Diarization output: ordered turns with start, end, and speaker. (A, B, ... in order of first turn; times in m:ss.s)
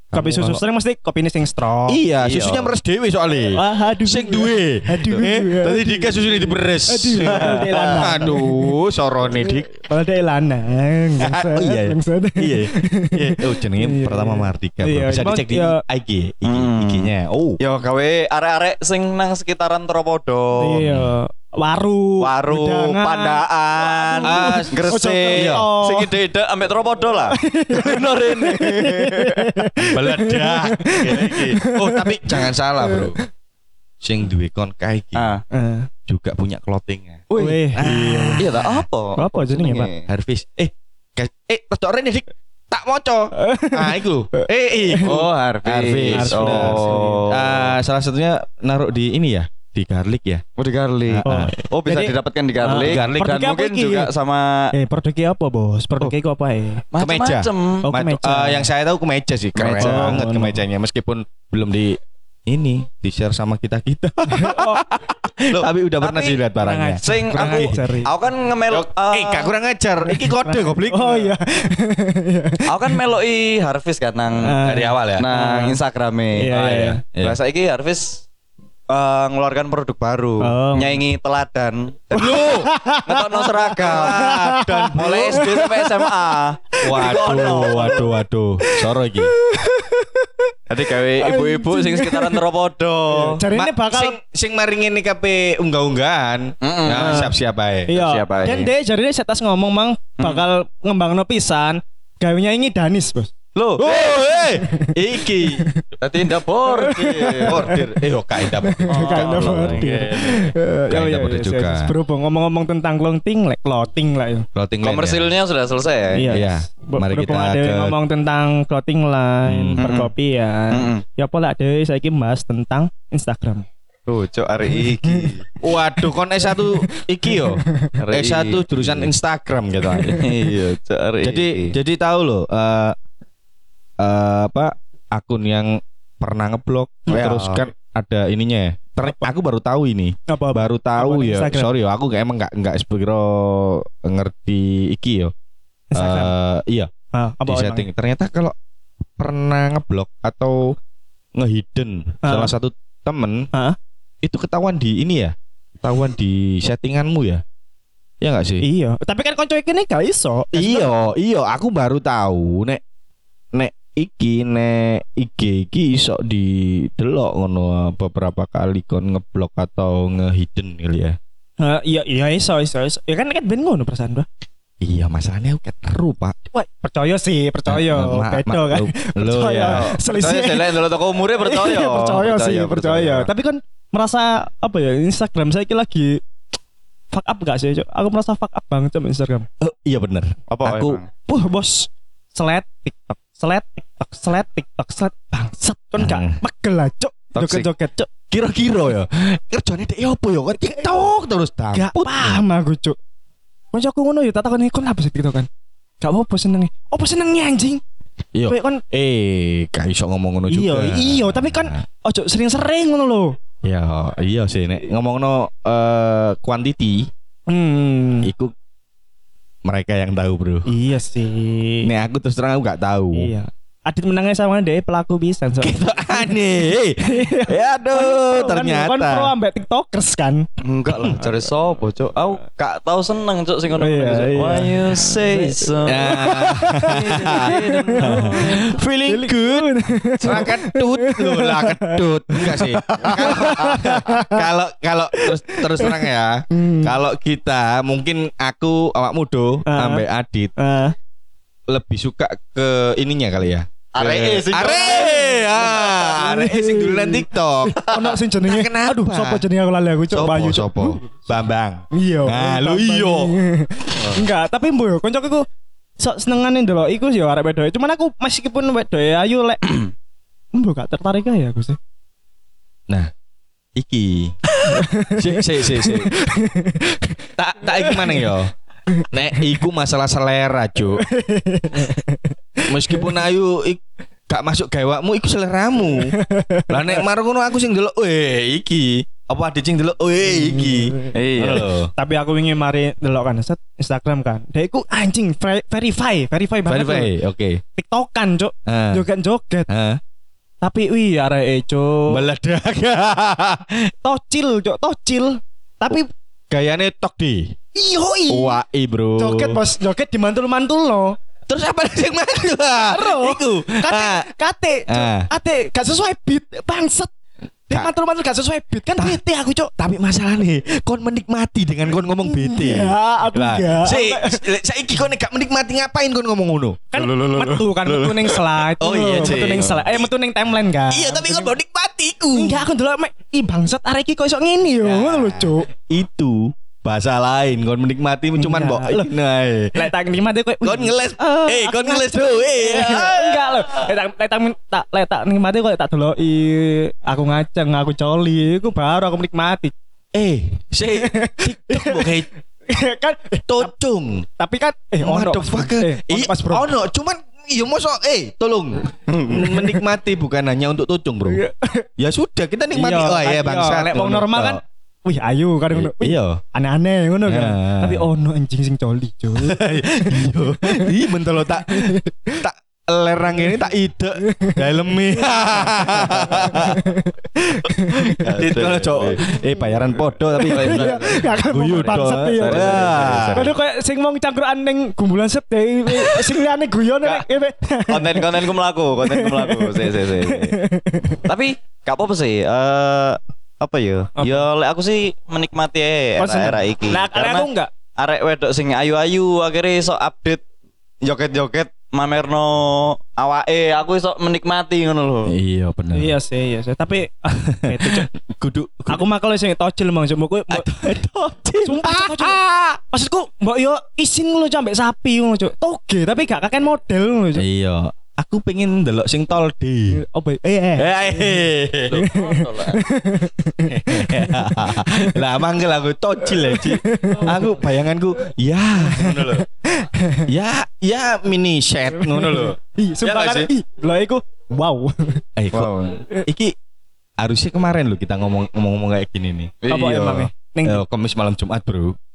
0:00.1-0:00.6 A
0:00.1-0:02.0 B
0:01.9-0:09.7 A
0:02.2-0:02.7 C
0:03.5-0:08.5 B
0:07.2-0:08.3 C
0:09.4-0:15.8 B
0:11.2-0:17.6 A
0:16.4-0:20.9 C
0:20.6-0:26.1 B
0:20.8-0:21.1 A
0:22.2-0:29.7 C
0:24.2-0:25.7 A
0:27.3-0:33.2 B
0:29.8-0:33.2 A
0:30.9-0:31.6 C
0:34.0-0:35.3 A
0:35.1-0:35.4 C
0:35.5-0:35.9 B
0:36.1-0:38.8 A
0:37.3-0:37.8 C
0:37.3-0:38.4 B
0:38.4-0:40.1 C
0:39.2-0:39.9 B
0:40.1-0:50.4 A
0:43.3-0:45.2 B
0:45.0-0:47.7 C
0:46.1-0:47.3 B
0:50.6-0:54.7 C
0:51.1-0:51.5 A
0:51.2-0:54.1 B
0:52.7-0:53.3 A
0:54.7-0:56.8 B
0:56.9-0:57.8 C
0:57.0-1:07.8 A
0:57.8-0:58.7 B
0:59.6-1:00.2 C
0:59.8-1:00.6 B
1:04.3-1:04.8 B
1:05.5-1:06.4 C
1:06.6-1:08.1 B
1:07.0-1:09.5 C
1:08.7-1:11.3 A
1:10.1-1:13.0 B
1:12.6-1:14.6 C
1:14.4-1:15.8 B
1:14.6-1:15.3 A
1:15.2-1:18.2 C
1:16.4-1:17.0 B
1:18.9-1:22.4 C
1:20.4-1:21.0 B
1:22.1-1:22.7 A
1:22.2-1:26.0 B
1:23.0-1:24.3 C
1:23.8-1:25.6 A
1:24.9-1:28.1 C
1:26.8-1:29.3 A
1:26.9-1:27.8 B
1:28.6-1:32.4 B
1:30.7-1:33.4 C
1:33.1-1:34.2 B
1:33.5-1:38.0 A
1:36.6-1:37.3 C
1:36.9-1:37.3 B
1:37.9-1:43.3 B
1:37.9-1:38.7 C
1:43.6-1:44.2 C
1:43.8-1:45.7 A
1:44.4-1:45.8 B
1:46.0-1:47.6 C
1:46.6-1:47.8 B
1:47.4-1:49.9 A
1:48.4-1:54.5 B
1:48.9-1:50.5 C
1:50.9-1:51.9 A
1:54.5-1:55.3 A
1:54.8-1:56.4 C
1:56.1-2:03.7 B
1:56.3-1:58.0 A
1:59.4-1:59.9 A
1:59.8-2:00.1 C
2:00.7-2:01.0 C
2:04.1-2:05.4 C
2:04.7-2:05.3 B
2:05.6-2:10.3 A
2:06.6-2:07.9 B
2:08.0-2:09.1 C
2:10.0-2:10.2 B
2:10.0-2:11.7 C
2:11.2-2:13.0 A
2:14.0-2:25.3 A
2:17.1-2:17.6 C
2:20.3-2:21.7 B
2:25.9-2:26.3 B
2:25.9-2:26.9 A
2:27.1-2:27.9 B
2:27.5-2:28.5 A
2:29.2-2:30.8 A
2:31.4-2:33.5 A
2:32.2-2:32.5 B
2:34.2-2:37.4 A
2:38.2-2:38.6 A
2:38.6-2:40.9 B
2:40.5-2:42.8 A
2:43.5-2:51.2 A
2:51.6-2:54.2 B
2:54.8-2:56.4 A
2:56.5-3:00.8 B
2:57.7-2:59.8 A
2:59.6-3:03.3 C
3:01.4-3:06.2 B
3:07.1-3:09.5 B
3:09.6-3:11.0 A
3:10.5-3:11.1 C
3:11.2-3:18.1 B
3:16.0-3:16.4 A
3:17.4-3:17.7 A
3:18.3-3:22.4 A
3:21.7-3:23.0 B
3:23.7-3:25.5 B
3:26.0-3:27.8 B
3:28.3-3:31.8 A
3:28.5-3:28.8 B
3:30.5-3:33.3 B
3:33.6-3:37.1 A
3:37.5-3:38.3 B
3:38.2-3:38.5 A
3:39.6-3:40.7 A
3:40.6-3:41.9 B
3:41.8-3:43.3 A
3:43.1-3:46.3 B
3:45.6-3:49.3 A
3:47.0-3:50.5 B
3:50.6-3:58.7 C
3:53.8-4:04.4 B
3:55.8-4:10.5 A
4:03.1-4:03.5 C
4:05.1-4:06.9 B
4:09.6-4:10.0 B
4:10.6-4:10.9 B
4:11.7-4:19.4 A
4:13.9-4:16.1 C
4:15.1-4:15.5 B
4:16.1-4:21.1 B
4:20.1-4:23.3 A
4:21.9-4:25.4 B
4:26.0-4:29.9 B
4:30.5-4:31.8 B
4:33.8-4:34.4 A
4:34.6-4:38.2 B
4:34.9-4:36.2 A
4:37.4-4:38.5 A
4:39.1-4:41.0 A
4:41.0-4:43.2 B
4:42.7-4:46.2 A
4:46.0-4:47.0 B
4:46.7-4:51.9 A
4:50.4-4:57.1 B
4:51.1-4:51.7 C
4:56.6-4:57.6 A
4:57.7-4:59.7 B
4:58.7-4:59.0 A
4:59.7-5:00.0 A
5:00.6-5:02.2 B
5:02.1-5:03.9 A
5:04.0-5:06.1 B
5:06.5-5:07.6 A
5:07.7-5:08.6 B
5:08.3-5:09.6 A
5:09.2-5:11.2 B
5:11.5-5:14.3 A
5:12.9-5:17.1 B
5:14.9-5:15.3 A
5:17.7-5:19.7 B
5:19.8-5:26.8 A
5:22.2-5:24.4 B
5:26.9-5:31.5 B
5:27.0-5:28.6 C
5:28.8-5:30.1 A
5:29.2-5:29.8 C
5:30.9-5:32.6 A
5:32.3-5:35.7 B
5:34.8-5:39.9 A
5:38.4-5:39.1 B
5:39.7-5:49.7 B
5:40.6-5:43.6 A
5:50.1-5:52.3 A
5:51.0-5:52.1 B
5:52.7-5:53.7 B
5:53.5-5:54.2 A
5:54.4-5:56.7 B
5:55.0-6:01.4 A
5:59.1-5:59.5 C
6:01.3-6:01.9 B
6:02.0-6:04.6 A
6:02.7-6:10.9 B
6:05.7-6:06.4 A
6:07.2-6:08.1 A
6:09.4-6:16.8 A
6:11.6-6:12.4 B
6:14.2-6:14.6 B
6:15.4-6:18.4 B
6:18.1-6:19.2 C
6:18.4-6:23.5 A
6:19.3-6:19.6 B
6:20.3-6:28.5 B
6:20.5-6:23.5 C
6:26.0-6:26.3 C
6:27.9-6:30.6 C
6:29.0-6:31.2 B
6:31.2-6:40.4 C
6:34.2-6:34.4 B
6:36.2-6:37.7 B
6:41.0-6:45.3 C
6:45.3-6:46.1 A
6:45.9-6:48.1 B
6:47.4-6:49.0 A
6:48.9-6:51.0 B
6:50.5-6:52.8 A
6:51.6-6:52.4 B
6:52.9-6:57.4 B
6:57.3-7:00.0 A
6:59.9-7:01.4 B
7:00.8-7:02.0 A
7:01.9-7:02.8 C
7:01.9-7:05.2 B
7:03.7-7:09.4 A
7:06.2-7:07.5 B
7:08.8-7:10.3 B
7:10.3-7:13.5 A
7:11.9-7:15.2 B
7:15.4-7:16.5 A
7:15.5-7:16.0 C
7:17.2-7:19.5 A
7:19.6-7:20.3 C
7:19.7-7:20.8 B
7:20.6-7:22.0 A